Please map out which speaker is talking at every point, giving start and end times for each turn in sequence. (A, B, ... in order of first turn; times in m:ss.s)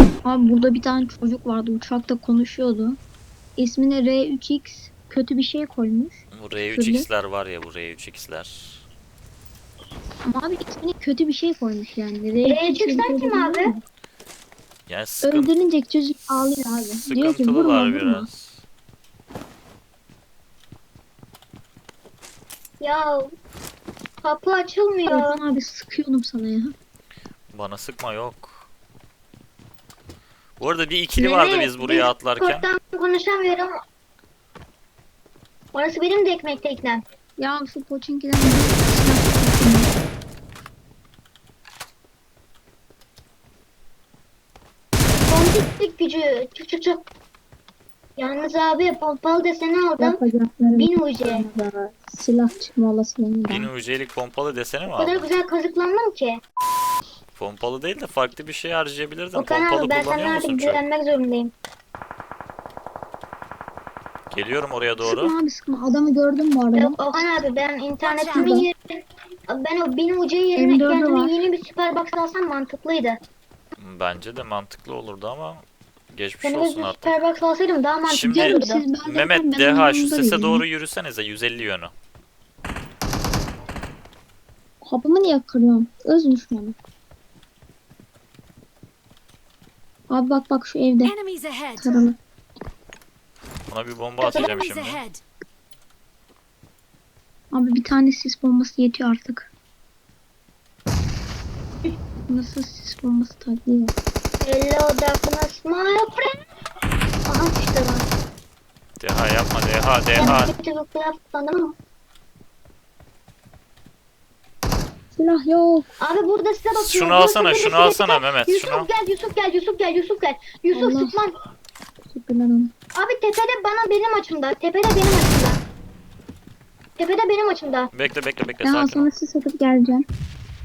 0:00.2-0:03.0 A
0:03.6-0:07.1 A
0:06.3-0:08.8 B
0:10.3-0:13.8 A
0:12.4-0:13.7 C
0:14.9-0:15.6 B
0:15.2-0:18.3 A
0:16.9-0:18.6 B
0:22.8-0:23.2 C
0:24.2-0:25.4 C
0:25.1-0:26.7 A
0:27.5-0:28.7 B
0:30.6-0:32.7 B
0:31.2-0:33.7 C
0:35.7-0:37.0 C
0:37.4-0:39.9 A
0:45.3-0:47.1 C
0:48.2-0:50.2 C
0:50.0-0:53.7 A
0:50.8-0:51.5 C
0:53.5-0:55.3 B
0:54.9-0:56.4 C
0:57.4-1:00.8 B
0:59.3-1:01.5 C
1:04.3-1:05.3 B
1:05.0-1:07.2 A
1:06.8-1:08.9 C
1:08.0-1:08.6 D
1:08.3-1:08.7 A
1:09.5-1:13.2 C
1:10.6-1:11.4 A
1:13.8-1:17.3 B
1:16.4-1:18.8 C
1:18.1-1:21.9 B
1:18.3-1:20.6 A
1:24.8-1:26.8 A
1:30.1-1:31.2 A
1:31.0-1:32.0 D
1:31.8-1:32.2 A
1:33.7-1:35.0 B
1:34.2-1:35.2 D
1:34.2-1:34.6 C
1:37.5-1:39.5 A
1:42.3-1:43.9 A
1:44.4-1:46.4 C
1:47.3-1:48.1 C
1:49.0-1:50.5 B
1:50.2-1:51.8 C
1:55.1-1:55.9 A
1:56.0-2:01.4 C
1:56.8-1:58.9 B
2:00.7-2:01.2 A
2:02.1-2:02.7 A
2:03.0-2:05.6 C
2:07.0-2:07.9 C
2:07.9-2:09.1 B
2:08.6-2:10.0 A